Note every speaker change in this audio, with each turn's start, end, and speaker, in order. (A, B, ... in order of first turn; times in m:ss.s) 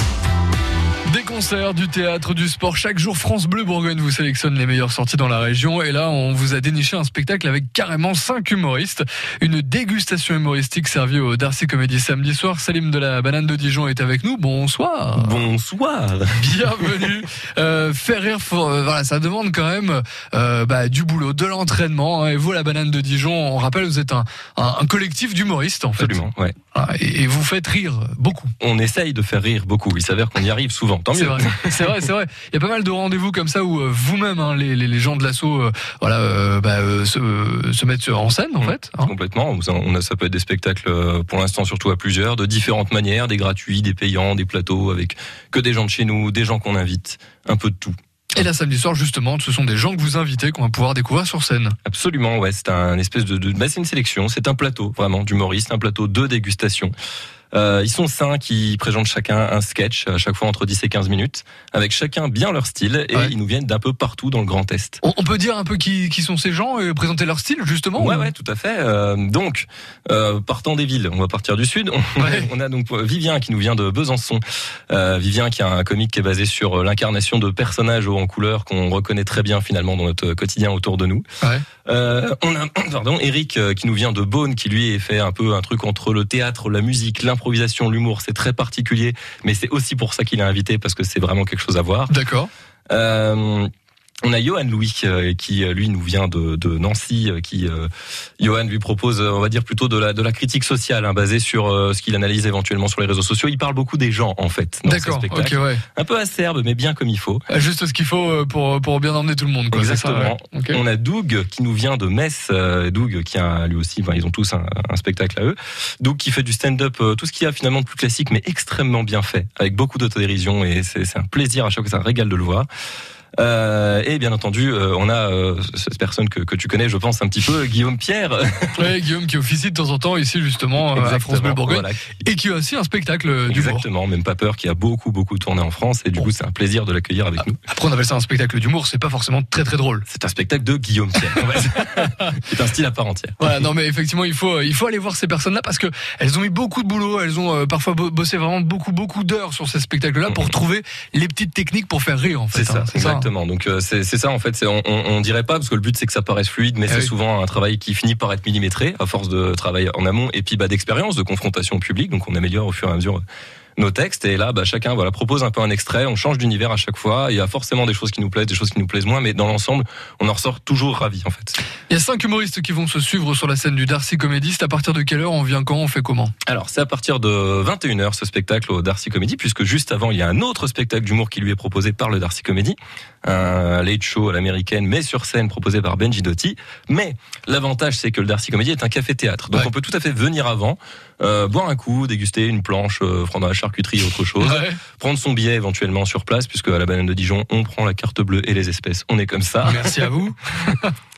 0:01.1-0:15.5 A
0:15.2-0:17.0 B
0:16.3-0:28.5 A
0:26.0-0:26.5 B
0:28.6-0:31.9 B
0:31.1-0:39.1 A
0:38.6-0:47.9 B
0:48.3-0:51.8 A
0:51.8-0:56.9 B
0:57.5-1:05.0 B
1:05.0-1:08.3 A
1:08.0-1:21.2 B
1:12.2-1:12.5 A
1:21.8-1:32.1 B
1:32.1-1:32.5 A
1:32.9-1:33.7 B
1:34.2-1:37.9 B
1:38.4-1:47.4 B
1:44.8-1:45.8 A
1:47.5-1:50.8 A
1:49.7-2:02.7 B
2:03.4-2:08.9 B
2:08.7-2:13.9 A
2:10.8-2:12.0 B
2:13.5-2:17.6 B
2:17.7-2:20.0 A
2:20.1-2:23.5 B
2:23.4-2:33.3 A
2:32.5-2:43.2 B
2:43.8-2:51.5 B
2:51.9-2:56.3 A
2:56.5-3:20.1 B
3:14.4-3:14.8 A
3:19.6-3:20.9 A